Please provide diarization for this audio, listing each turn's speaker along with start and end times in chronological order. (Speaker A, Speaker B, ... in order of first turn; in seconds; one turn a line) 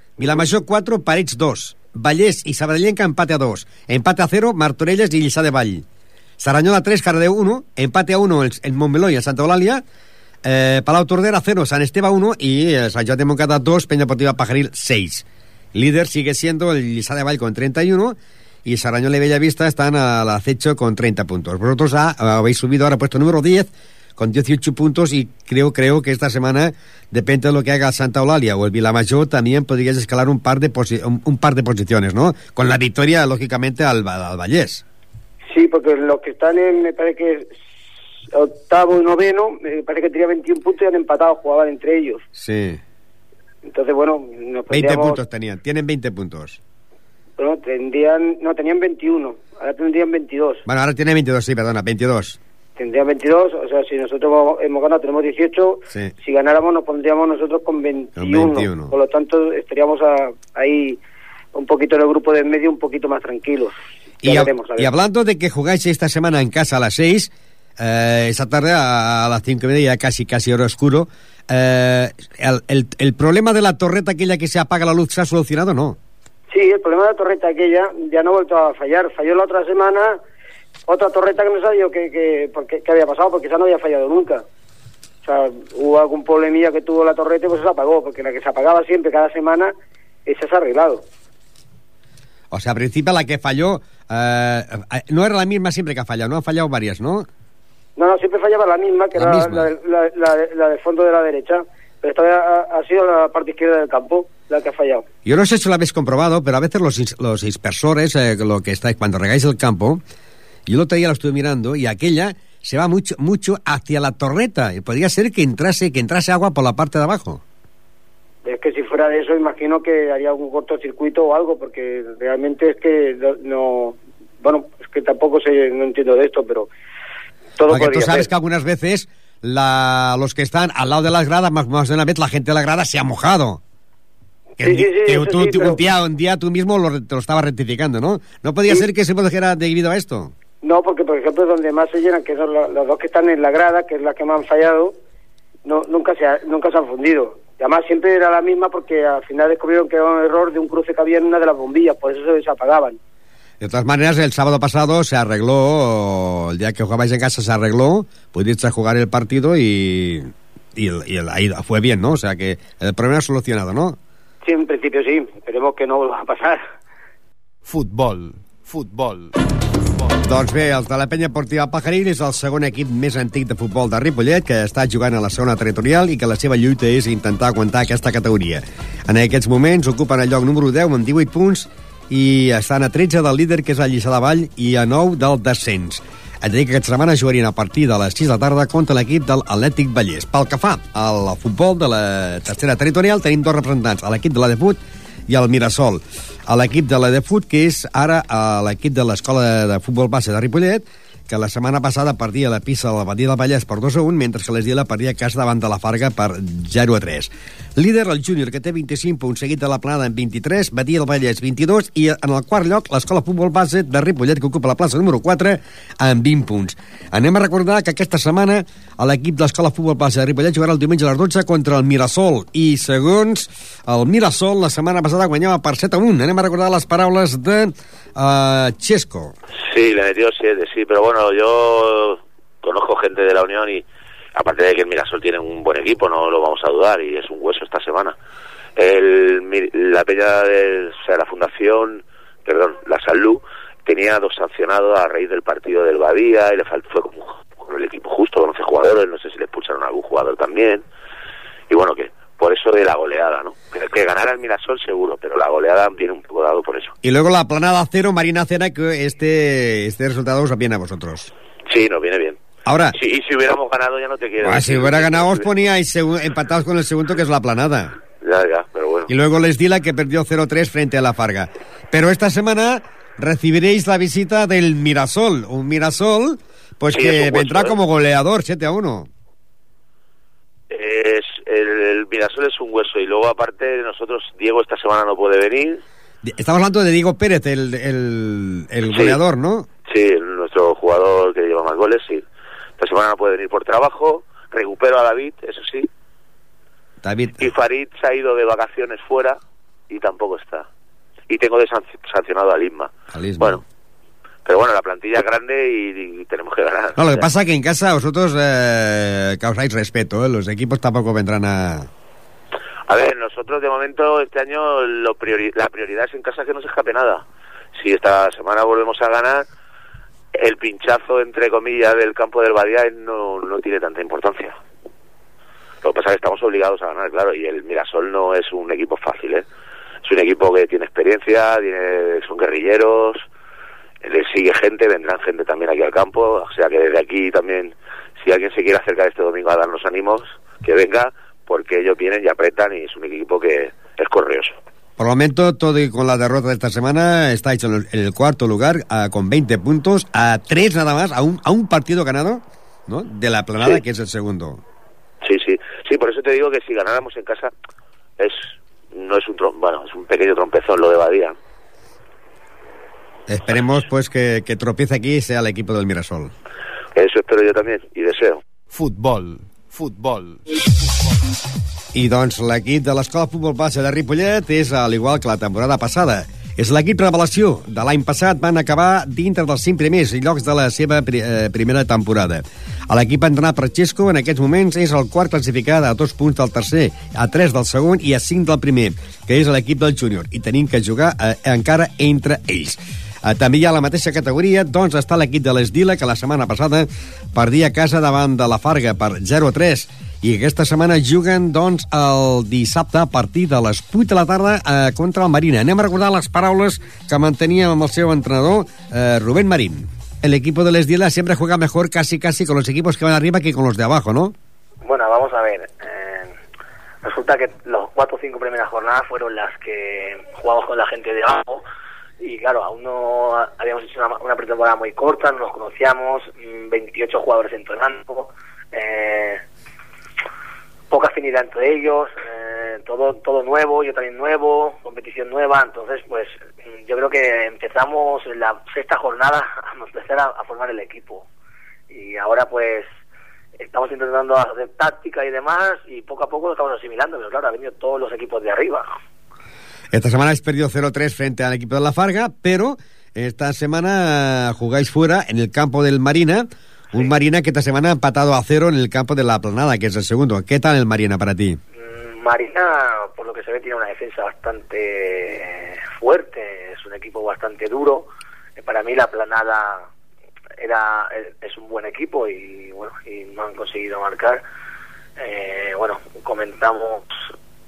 Speaker A: 0.2-5.8
Speaker A: 6.4-9.8
Speaker A: 10.4-34.8
Speaker B: 35.5-37.5
Speaker B: 38.3-42.2
Speaker A: 42.4-42.8
Speaker B: 43.7-45.2
Speaker A: 44.7-46.6
Speaker B: 47.4-50.6
Speaker A: 50.7-52.4
Speaker B: 52.8-61.0
Speaker A: 58.2-59.0
Speaker B: 61.5-64.9
Speaker A: 64.2-76.0
Speaker B: 76.5-80.2
Speaker B: 80.9-84.4
Speaker B: 85.2-89.7
Speaker B: 90.3-91.0
Speaker A: 92.5-97.3
Speaker B: 98.0-105.0
Speaker A: 99.2-99.7
Speaker A: 105.2-110.0
Speaker A: 110.7-117.4
Speaker B: 118.5-126.7
Speaker B: 127.6-128.3
Speaker A: 127.7-133.6
Speaker B: 134.6-135.8
Speaker A: 134.6-140.3
Speaker B: 140.6-144.9
Speaker B: 145.7-153.0
Speaker A: 153.6-164.0
Speaker B: 164.4-166.6
Speaker C: 167.7-169.3
Speaker A: 170.2-229.3
Speaker D: 229.6-233.8
Speaker D: 234.4-238.2
Speaker D: 238.8-250.8
Speaker D: 251.7-256.9
Speaker A: 257.0-261.3
Speaker D: 261.7-262.4
Speaker A: 262.6-263.0
Speaker D: 262.9-265.5
Speaker A: 264.4-267.9
Speaker D: 268.2-269.1
Speaker A: 269.1-279.1
Speaker D: 276.9-277.8
Speaker D: 280.7-285.8
Speaker A: 286.2-289.7
Speaker D: 288.9-289.2
Speaker D: 289.9-292.2
Speaker D: 292.8-295.9
Speaker A: 297.0-297.4
Speaker D: 297.4-299.4
Speaker D: 299.9-300.7
Speaker D: 301.3-303.6
Speaker A: 303.1-303.6
Speaker D: 304.4-307.3
Speaker A: 307.0-311.9
Speaker D: 312.9-317.2
Speaker D: 317.8-319.5
Speaker D: 320.3-324.6
Speaker D: 325.8-329.4
Speaker D: 330.0-333.2
Speaker D: 334.0-344.6
Speaker A: 345.0-354.6
Speaker D: 355.2-357.5
Speaker D: 358.2-361.4
Speaker A: 363.3-366.3
Speaker D: 366.9-368.4
Speaker C: 368.7-370.4
Speaker A: 371.9-414.3
Speaker E: 414.9-416.4
Speaker E: 417.0-421.6
Speaker E: 422.2-429.4
Speaker E: 430.9-441.3
Speaker E: 441.9-442.9
Speaker E: 443.6-448.9
Speaker A: 449.9-461.6
Speaker E: 461.8-469.9
Speaker E: 470.6-474.4
Speaker E: 475.2-477.2